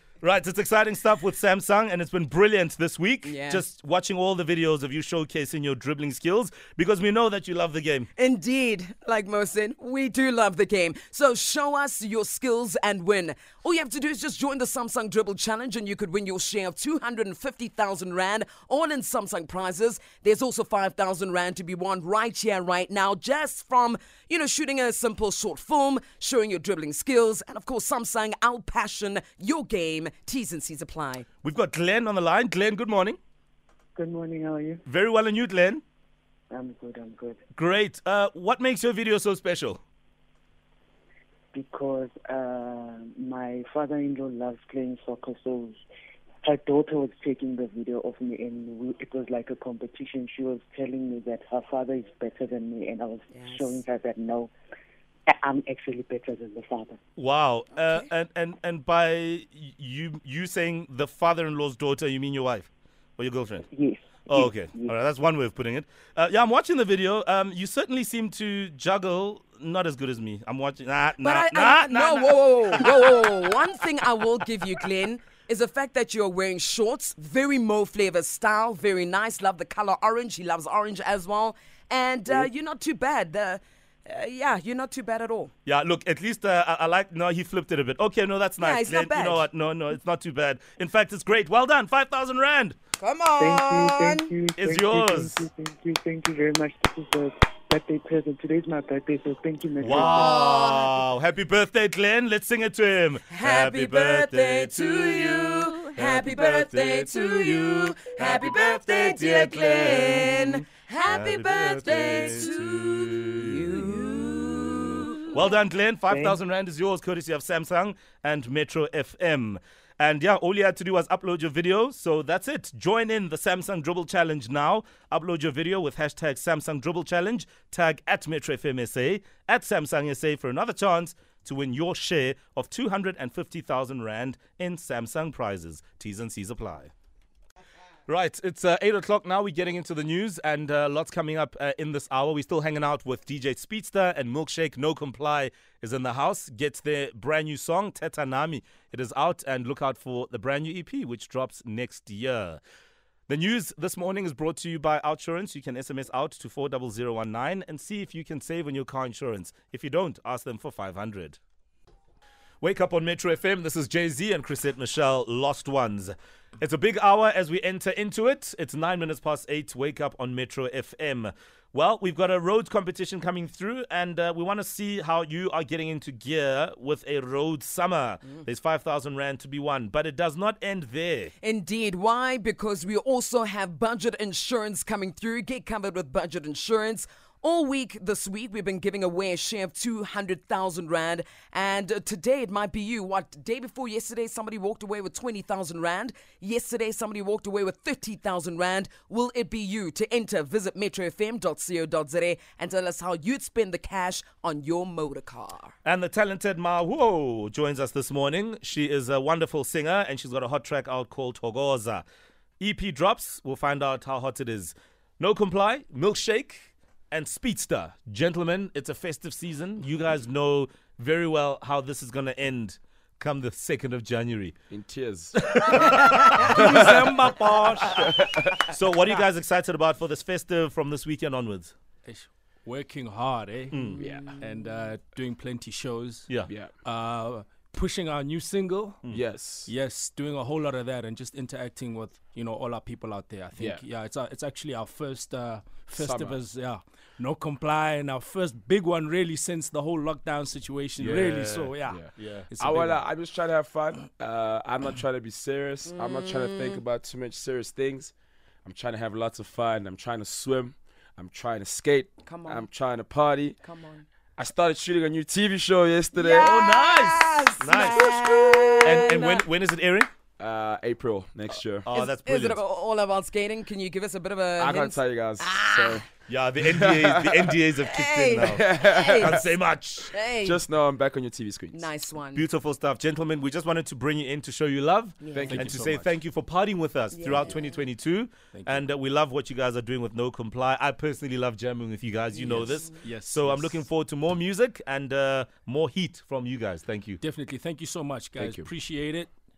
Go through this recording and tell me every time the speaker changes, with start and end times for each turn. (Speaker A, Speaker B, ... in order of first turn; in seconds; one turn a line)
Speaker A: 0.2-8.1
Speaker B: 3.2-3.6
Speaker B: 8.2-31.3
Speaker A: 31.4-33.2
Speaker C: 34.0-34.8
Speaker A: 34.9-35.8
Speaker C: 36.5-37.4
Speaker A: 37.5-39.8
Speaker C: 41.5-45.8
Speaker C: 46.4-54.5
Speaker B: 53.3-53.8
Speaker C: 55.3-57.0
Speaker A: 57.2-63.7
Speaker B: 57.8-58.1
Speaker C: 63.7-65.0
Speaker A: 64.3-73.2
Speaker B: 71.2-85.5
Speaker A: 85.7-92.8
Speaker B: 88.6-89.5
Speaker B: 93.0-94.3
Speaker C: 93.4-100.4
Speaker A: 94.6-95.5
Speaker A: 99.8-114.3
Speaker B: 99.9-101.0
Speaker B: 103.3-115.4
Speaker A: 115.2-136.9
Speaker C: 116.1-116.4
Speaker A: 138.1-152.6
Speaker A: 153.3-161.4
Speaker A: 162.6-181.3
Speaker B: 181.4-205.7
Speaker A: 205.8-212.1
Speaker A: 212.6-224.6
Speaker D: 224.7-225.9
Speaker A: 225.3-227.2
Speaker E: 226.4-228.2
Speaker D: 226.5-227.2
Speaker A: 227.8-231.7
Speaker D: 228.0-228.6
Speaker E: 232.1-236.3
Speaker A: 233.7-234.0
Speaker D: 234.0-234.3
Speaker B: 234.0-234.4
Speaker E: 236.8-239.0
Speaker D: 239.1-239.7
Speaker E: 239.7-253.0
Speaker D: 243.6-243.8
Speaker D: 245.9-246.4
Speaker D: 251.0-252.1
Speaker A: 251.0-252.5
Speaker D: 252.6-258.1
Speaker B: 255.9-256.8
Speaker D: 258.6-263.6
Speaker B: 262.3-262.7
Speaker B: 263.6-264.1
Speaker D: 264.4-266.6
Speaker B: 266.1-269.5
Speaker A: 266.4-270.1
Speaker D: 270.4-271.9
Speaker A: 271.9-272.6
Speaker B: 271.9-276.0
Speaker D: 274.6-276.1
Speaker A: 276.3-280.1
Speaker D: 276.6-277.6
Speaker B: 277.8-279.5
Speaker D: 278.2-279.5
Speaker B: 280.1-280.6
Speaker D: 280.4-281.9
Speaker B: 281.7-282.5
Speaker A: 282.4-297.2
Speaker B: 285.2-285.6
Speaker D: 285.3-285.8
Speaker E: 285.4-286.2
Speaker B: 287.1-287.8
Speaker E: 288.5-288.9
Speaker B: 292.3-293.0
Speaker E: 292.4-293.8
Speaker E: 297.2-299.3
Speaker D: 298.4-298.7